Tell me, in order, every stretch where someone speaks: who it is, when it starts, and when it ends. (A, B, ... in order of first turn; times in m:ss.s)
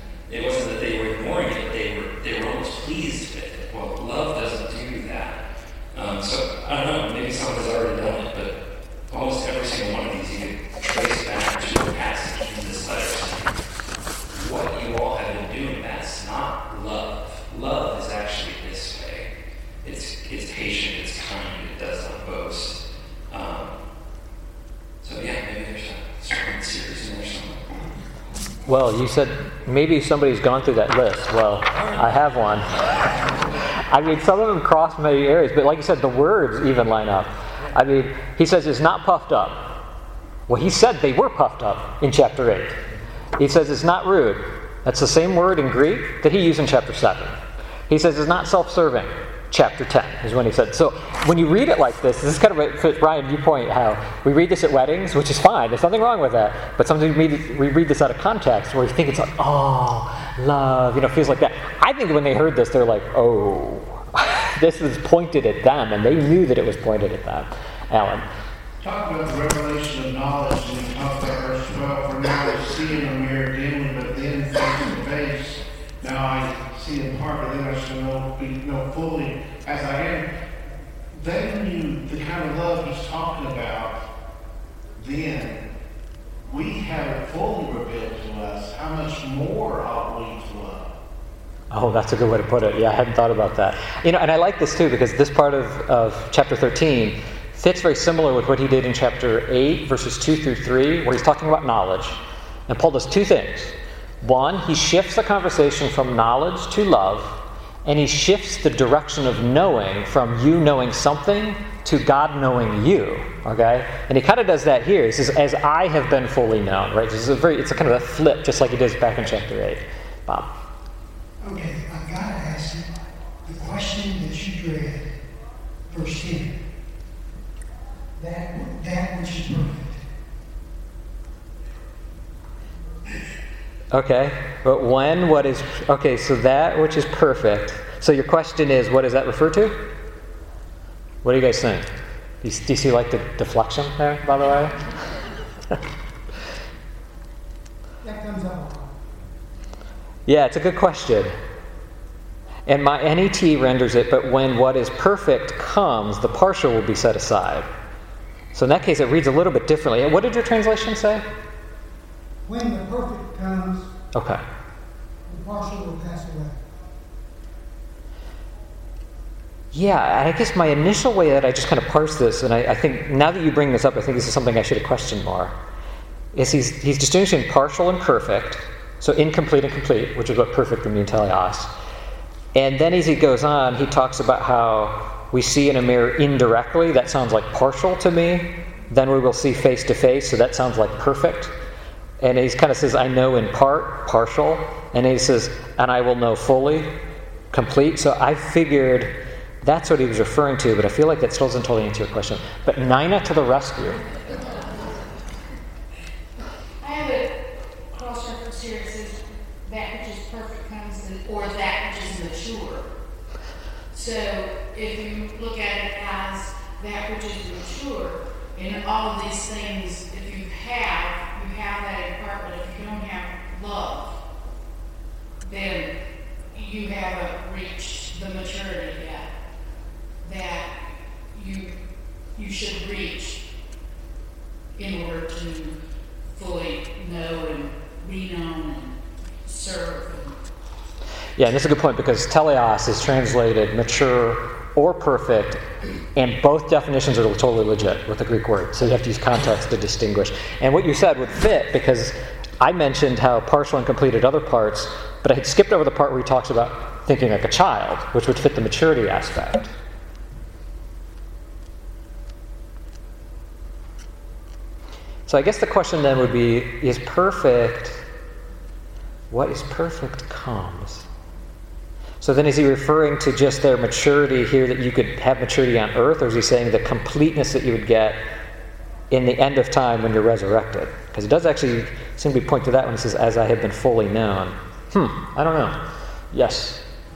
0:00.3-0:08.5 A
0:09.1-0:13.5 A
0:14.3-0:19.3 A
0:19.8-0:22.8 A
0:23.3-0:23.8 A
0:25.0-0:27.6 A
0:28.7-0:39.8 B
0:40.5-0:42.8 B
0:43.4-0:47.4 B
0:47.9-1:08.3 B
1:08.8-1:20.3 C
1:21.1-1:24.0 C
1:25.0-1:25.6 C
1:26.4-1:30.9 C
1:31.7-2:00.5 B
2:01.4-2:05.1 D
2:05.9-2:06.6 D
2:08.2-2:10.0 D
2:13.9-2:19.8 B
2:21.2-2:21.9 B
2:22.4-2:24.9 B
2:28.0-2:29.0 D
2:30.3-2:31.3 B
2:32.7-2:37.7 B
2:38.5-2:41.2 B
2:42.4-2:43.9 D
2:44.1-2:44.4 B
2:45.3-2:46.6 D
2:49.7-2:55.6 B
2:56.3-3:01.7 B
3:02.6-3:11.5 B
3:12.2-3:17.0 B
3:17.5-3:24.0 B
3:26.8-3:27.4 E
3:27.9-3:32.9 E
3:33.9-3:44.2 E
3:45.4-3:45.9 E
3:46.5-3:49.3 E
3:50.2-3:50.7 E
3:51.3-3:51.7 E
3:52.4-3:53.4 E
3:54.8-3:55.8 E
3:56.3-4:00.4 E
4:01.4-4:05.6 B
4:06.1-4:19.7 B
4:25.3-4:28.0 B
4:29.3-4:31.1 B
4:32.2-4:38.2 B
4:39.1-4:45.8 B
4:46.3-4:46.8 B